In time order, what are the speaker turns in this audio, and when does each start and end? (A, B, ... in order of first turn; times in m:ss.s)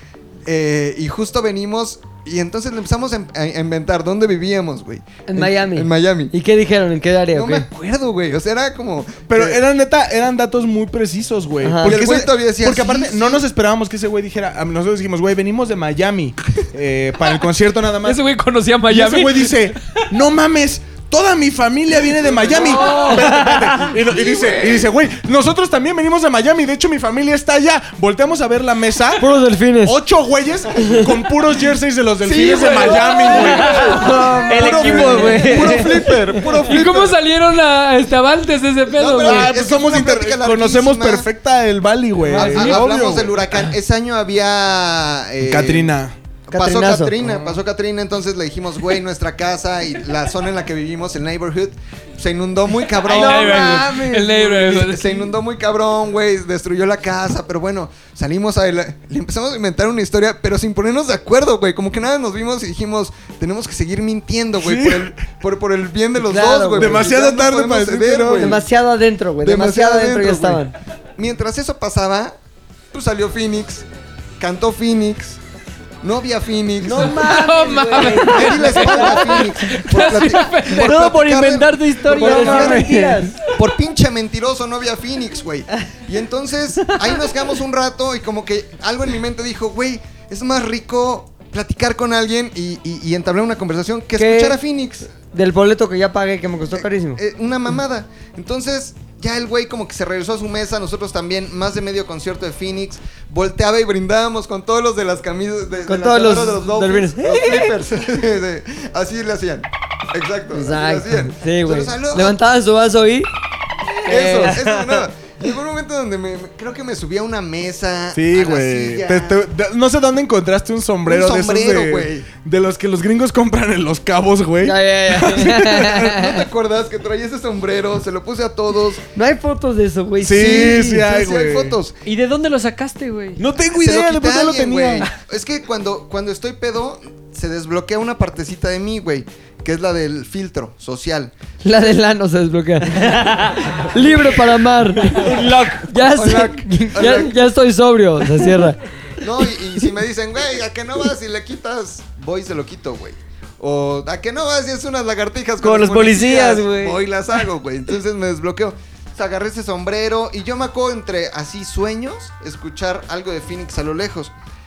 0:00.5-0:06.3 A
0:05.3-0:07.7 B
0:07.3-0:09.6 A
0:09.3-0:18.2 C
0:11.6-0:12.0 B
0:11.8-0:13.4 A
0:18.0-0:20.0 D
0:18.9-0:35.8 C
0:22.8-0:23.2 A
0:22.9-0:23.2 B
0:24.0-0:24.8 A
0:29.2-0:30.0 B
0:32.2-0:37.2 A
0:33.3-0:36.2 E
0:35.1-0:35.5 B
0:36.6-0:39.5 D
0:38.9-0:41.3 A
0:39.2-0:43.5 C
0:42.3-0:45.9 A
0:42.4-0:42.8 D
0:45.4-0:46.2 C
0:46.5-1:08.6 A
0:46.5-0:47.2 B
0:47.2-0:47.6 C
0:53.0-0:55.4 D
0:53.4-0:54.3 C
1:04.6-1:05.2 C
1:06.2-1:07.0 B
1:06.8-1:08.6 C
1:08.4-1:10.7 B
1:09.4-1:10.6 A
1:11.2-1:12.4 A
1:12.9-1:13.8 A
1:14.4-1:15.4 A
1:16.0-1:17.3 A
1:16.8-1:19.5 B
1:17.1-1:21.0 D
1:18.2-1:22.9 A
1:20.6-1:22.9 E
1:22.1-1:23.4 B
1:23.5-1:35.1 A
1:34.2-1:34.6 B
1:35.3-1:37.2 B
1:36.8-1:52.4 A
1:45.9-1:47.8 B
1:50.5-1:53.3 B
1:54.0-1:59.4 A
1:54.0-1:55.0 B
1:58.1-2:06.1 C
2:01.1-2:02.3 A
2:04.6-2:06.4 B
2:06.1-2:09.0 A
2:09.2-2:11.0 B
2:10.2-2:11.8 C
2:10.4-2:11.9 A
2:12.0-2:13.4 E
2:13.4-2:15.1 C
2:13.7-2:21.3 A
2:21.6-2:25.3 B
2:23.0-2:23.7 E
2:25.0-2:25.9 E
2:25.4-2:27.4 A
2:25.8-2:28.8 B
2:29.2-2:44.3 A
2:35.6-2:37.0 E